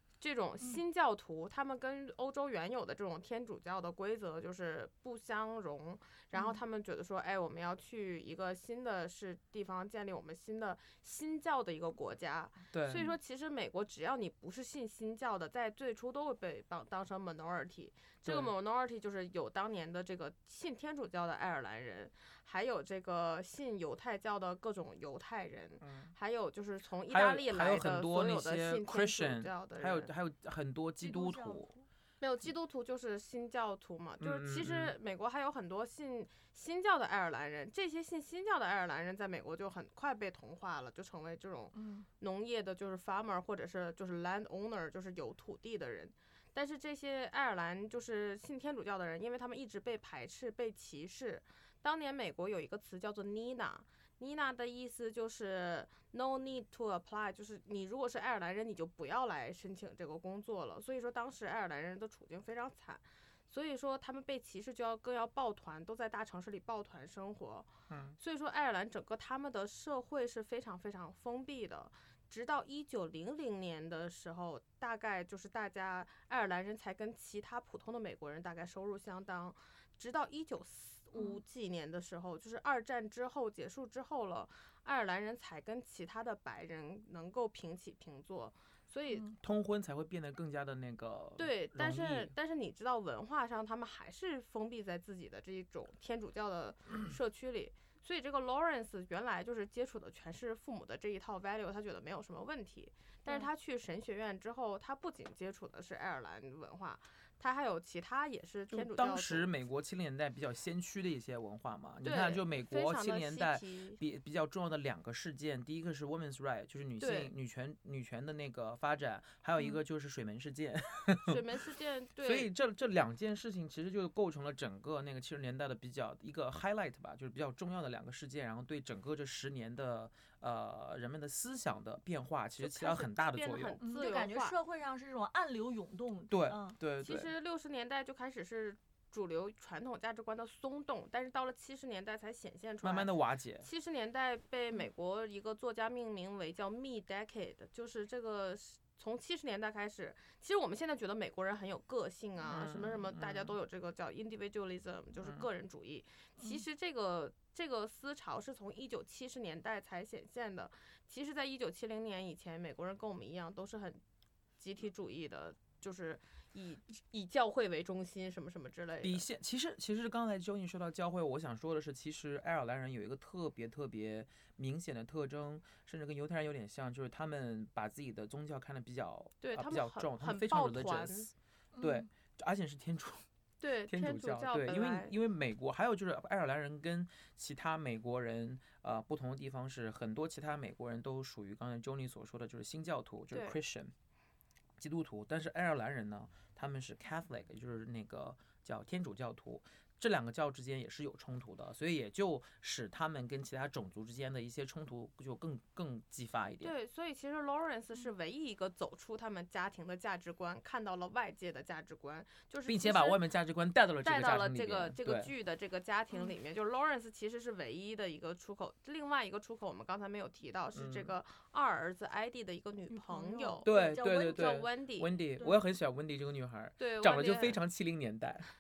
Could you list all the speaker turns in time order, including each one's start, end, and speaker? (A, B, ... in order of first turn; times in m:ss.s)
0:00.2-0:30.1 A
0:06.3-0:06.6 B
0:12.7-0:13.1 C
0:18.2-0:18.5 C
0:25.8-0:26.1 C
0:27.1-0:31.7 C
0:31.0-0:31.8 B
0:32.2-1:29.3 A
0:34.2-0:35.0 C
0:41.7-0:42.1 B
1:07.9-1:08.2 C
1:29.1-1:29.4 B
1:29.4-1:32.3 C
1:31.4-1:49.5 A
1:48.7-2:01.4 C
1:52.0-1:54.0 A
1:57.0-1:57.3 A
2:01.3-2:02.5 A
2:02.2-2:13.8 C
2:12.6-2:14.6 A
2:13.8-2:16.8 B
2:16.3-2:17.3 C
2:17.0-2:44.0 A
2:22.8-2:23.7 C
2:32.4-2:33.6 C
2:35.2-2:35.5 C
2:44.6-2:49.3 A
2:49.0-3:03.3 C
2:59.4-3:01.3 A
3:01.7-3:02.1 B
3:03.6-3:05.2 A
3:03.9-3:13.9 C
3:13.3-3:13.6 A
3:14.8-3:26.8 C
3:26.6-3:33.2 A
3:32.7-3:35.3 C
3:34.0-3:45.2 A
3:40.7-3:41.1 C
3:42.9-3:44.6 B
3:43.6-3:48.5 C
3:46.8-3:47.6 A